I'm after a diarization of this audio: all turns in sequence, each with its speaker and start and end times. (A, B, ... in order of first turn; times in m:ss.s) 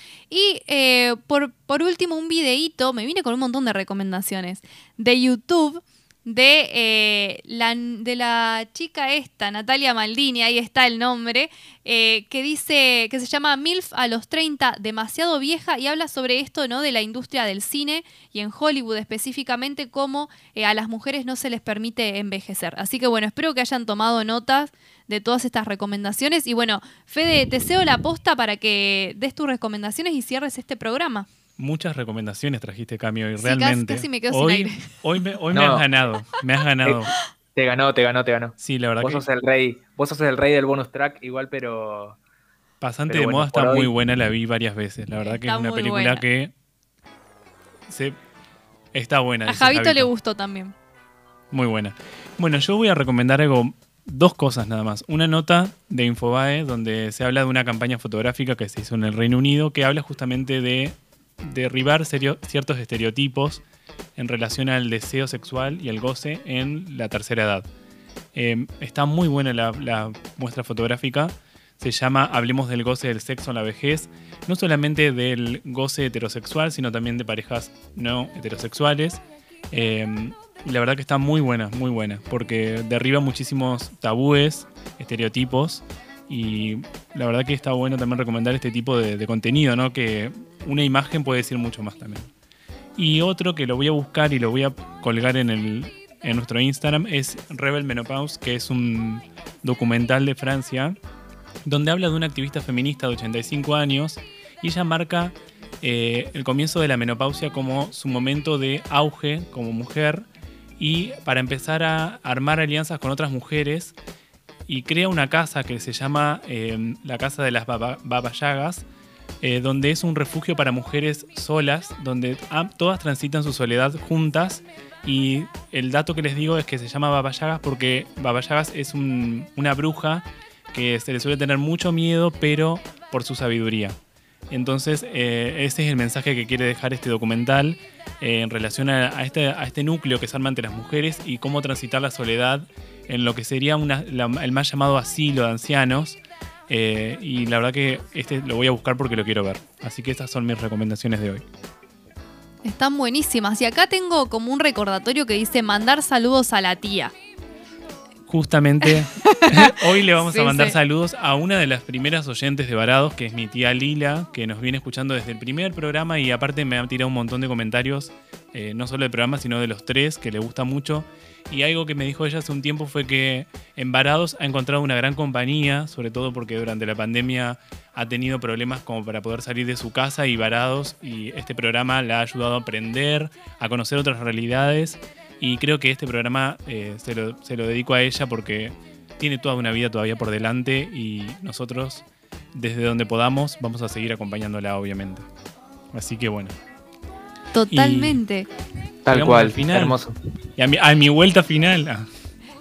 0:00.3-0:31.3 A
0:31.6-0:37.1 B
0:33.4-0:34.8 A
0:35.5-0:35.8 C
0:37.6-0:42.2 C
0:38.6-0:39.2 B
0:42.8-0:46.5 B
0:43.1-0:43.9 C
0:45.2-0:46.2 A
0:47.9-0:48.2 B
0:48.9-0:50.1 B
0:49.5-0:50.7 A
0:51.5-1:03.6 B
1:04.2-1:07.7 B
1:08.4-1:32.3 B
1:33.0-1:41.0 B
1:41.7-1:50.3 B
1:50.8-1:54.0 B
1:54.7-1:58.9 B
1:59.4-2:14.0 B
2:14.5-2:31.4 B
2:32.6-2:37.1 A
2:38.3-3:15.3 B
2:39.2-2:40.8 A
3:15.9-3:16.6 B
3:17.5-3:18.5 A
3:17.7-3:18.2 B
3:19.1-3:20.2 C
3:19.1-3:20.0 B
3:20.6-3:22.1 B